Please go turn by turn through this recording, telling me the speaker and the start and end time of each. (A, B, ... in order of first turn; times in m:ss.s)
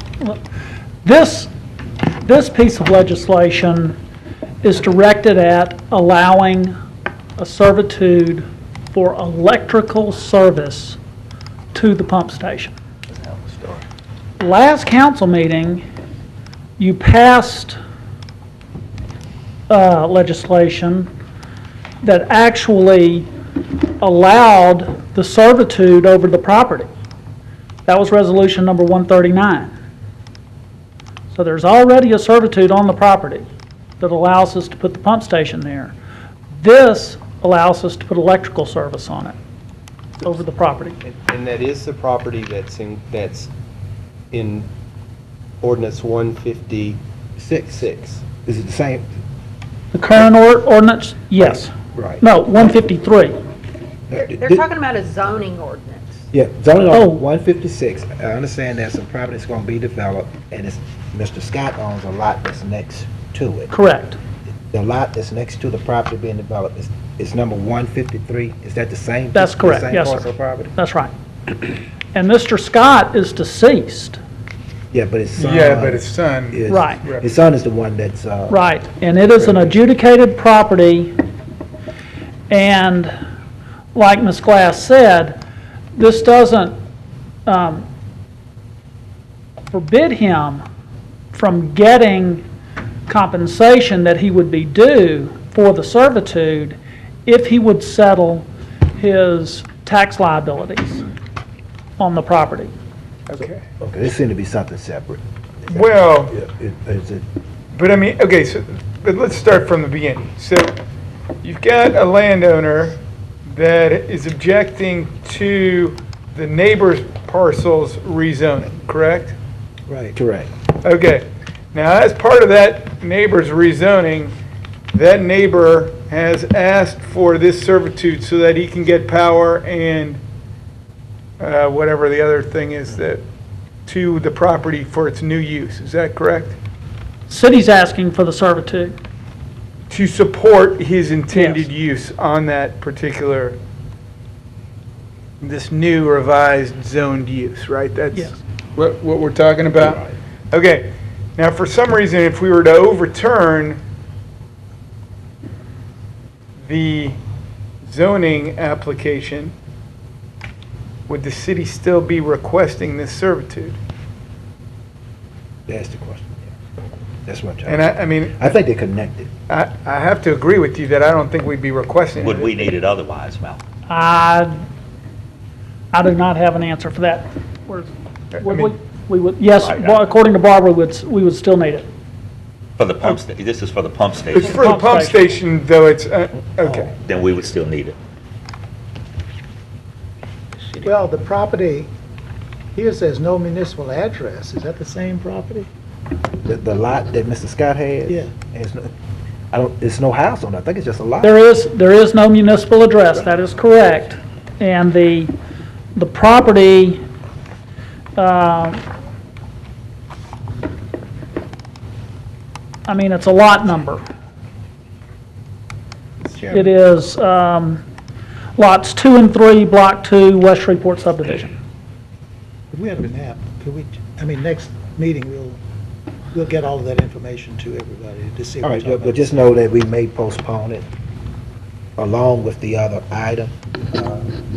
0:01.0-0:01.5 A
0:02.2-0:04.0 A
0:04.6-0:06.8 A
0:07.4-0:11.0 A
0:11.7-0:12.7 A
0:13.2-0:13.8 B
0:14.4-0:15.8 A
0:16.8-0:17.8 A
0:19.7-0:21.1 A
0:22.0-0:23.3 A
0:24.0-0:26.9 A
0:27.8-0:29.7 A
0:31.3-0:33.5 A
0:34.0-0:35.9 A
0:36.6-0:39.3 A
0:40.2-0:41.0 A
0:41.1-0:43.5 C
0:44.3-0:44.7 C
0:45.6-0:47.0 C
0:47.5-0:49.1 B
0:49.9-0:53.4 A
0:51.9-0:52.2 B
0:54.1-0:54.6 B
0:54.2-0:56.2 D
0:56.3-1:03.7 B
0:56.9-0:57.2 A
1:03.7-1:04.2 A
1:04.7-1:10.7 B
1:09.3-1:11.1 A
1:12.1-1:14.2 A
1:14.9-1:18.6 B
1:15.4-1:17.2 E
1:16.7-1:17.0 A
1:18.5-1:21.1 A
1:19.4-1:19.7 B
1:22.5-1:23.1 A
1:23.9-1:25.4 A
1:26.0-1:26.8 A
1:27.4-1:27.8 A
1:29.7-1:30.6 A
1:31.3-1:32.4 A
1:33.1-1:38.4 A
1:39.0-1:41.0 A
1:42.0-1:42.7 A
1:43.3-1:43.7 E
1:43.8-1:47.2 B
1:45.7-1:46.3 E
1:47.7-1:50.8 E
1:51.4-1:53.0 E
1:53.5-1:59.3 E
2:00.1-2:00.5 B
2:00.8-2:04.3 E
2:04.9-2:10.2 E
2:11.4-2:13.2 E
2:13.8-2:16.6 E
2:17.3-2:18.9 A
2:19.9-2:23.6 E
2:21.3-2:21.7 A
2:25.4-2:33.8 E
2:28.1-2:28.4 A
2:29.8-2:30.1 B
2:36.6-2:37.2 E
2:37.8-2:39.5 E
2:41.1-2:43.8 E
2:45.7-2:46.5 B
2:47.2-2:49.3 B
2:47.6-2:48.3 E
2:49.5-2:52.6 E
2:52.2-2:53.6 F
2:53.9-2:54.6 A
2:55.9-3:01.9 A
2:59.5-3:00.1 F
3:02.8-3:04.6 F
3:04.4-3:05.3 A
3:04.5-3:06.9 E
3:07.0-3:08.0 F
3:10.8-3:11.9 G
3:12.7-3:15.7 G
3:16.4-3:18.9 B
3:19.5-3:21.4 B
3:21.2-3:25.3 A
3:25.9-3:27.0 A
3:28.2-3:28.8 A
3:32.9-3:34.0 A
3:36.5-3:37.8 A
3:38.6-3:41.5 A
3:42.7-3:45.6 G
3:46.3-3:49.2 G
3:48.6-3:50.8 B
3:52.0-3:54.3 B